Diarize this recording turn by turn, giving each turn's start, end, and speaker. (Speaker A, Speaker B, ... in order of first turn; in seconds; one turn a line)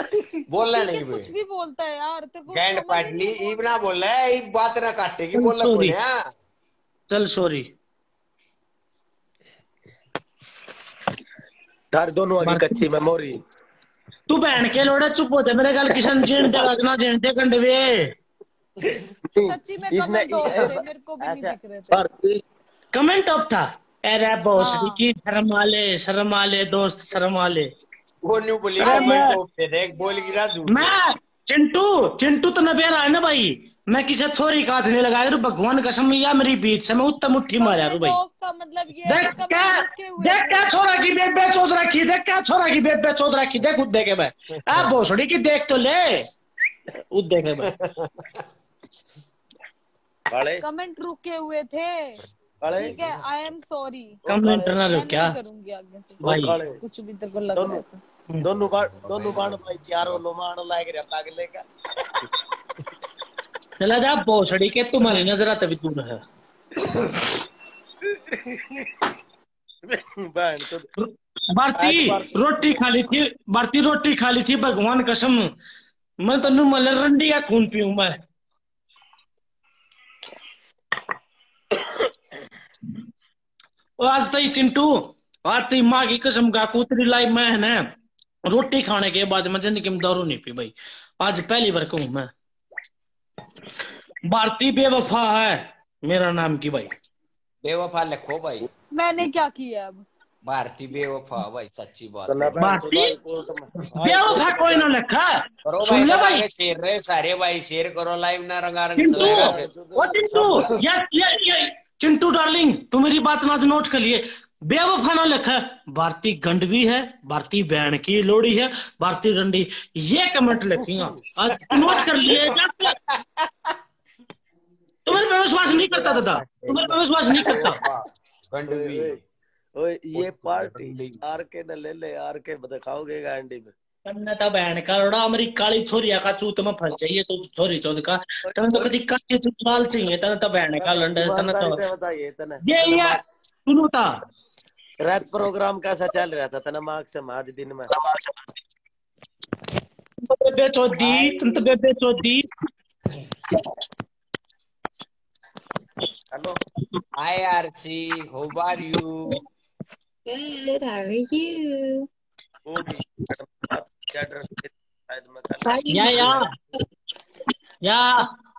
Speaker A: 0.5-1.3
Speaker B: 0.6-3.9
Speaker A: 2.5-6.2
Speaker C: 5.3-6.0
Speaker C: 7.1-7.7
Speaker D: 11.9-13.4
Speaker C: 12.4-12.8
Speaker C: 14.3-18.1
Speaker D: 19.3-22.4
Speaker B: 19.4-22.0
Speaker C: 22.9-27.7
Speaker B: 24.6-25.0
Speaker A: 28.2-31.0
Speaker C: 28.8-29.3
Speaker B: 28.8-29.2
Speaker B: 29.9-30.4
Speaker C: 30.7-38.2
Speaker B: 37.6-40.7
Speaker C: 39.0-46.2
Speaker C: 47.1-47.7
Speaker A: 47.7-48.4
Speaker D: 50.3-50.6
Speaker B: 50.6-52.2
Speaker D: 52.6-53.2
Speaker B: 52.7-54.2
Speaker D: 54.2-54.8
Speaker C: 54.3-55.4
Speaker B: 54.8-56.2
Speaker D: 56.2-56.8
Speaker C: 56.2-56.5
Speaker B: 56.8-58.0
Speaker D: 57.5-57.8
Speaker D: 58.4-61.6
Speaker A: 58.6-60.2
Speaker C: 63.8-66.2
Speaker D: 68.1-68.9
Speaker D: 69.8-70.9
Speaker C: 71.0-75.5
Speaker D: 71.8-72.3
Speaker C: 76.2-78.2
Speaker C: 84.0-87.8
Speaker C: 88.5-92.3
Speaker C: 94.3-96.9
Speaker A: 97.6-98.7
Speaker B: 98.9-100.0
Speaker A: 100.4-102.6
Speaker D: 102.3-104.9
Speaker C: 102.6-103.1
Speaker C: 104.0-105.3
Speaker A: 105.6-109.7
Speaker C: 105.8-106.4
Speaker C: 109.0-122.9
Speaker D: 109.1-110.7
Speaker A: 121.5-122.5
Speaker C: 125.0-127.8
Speaker A: 126.2-129.2
Speaker D: 127.3-127.7
Speaker D: 128.7-129.2
Speaker D: 129.8-133.7
Speaker A: 130.1-131.2
Speaker C: 134.1-141.8
Speaker D: 138.5-138.9
Speaker D: 140.8-143.2
Speaker C: 142.6-144.1
Speaker D: 145.0-147.9
Speaker C: 150.3-152.5
Speaker D: 151.0-151.6
Speaker D: 156.3-156.6
Speaker A: 157.2-159.4
Speaker E: 160.3-162.1
Speaker D: 162.7-165.8
Speaker E: 165.6-166.4
Speaker C: 165.9-166.5
Speaker C: 167.8-168.2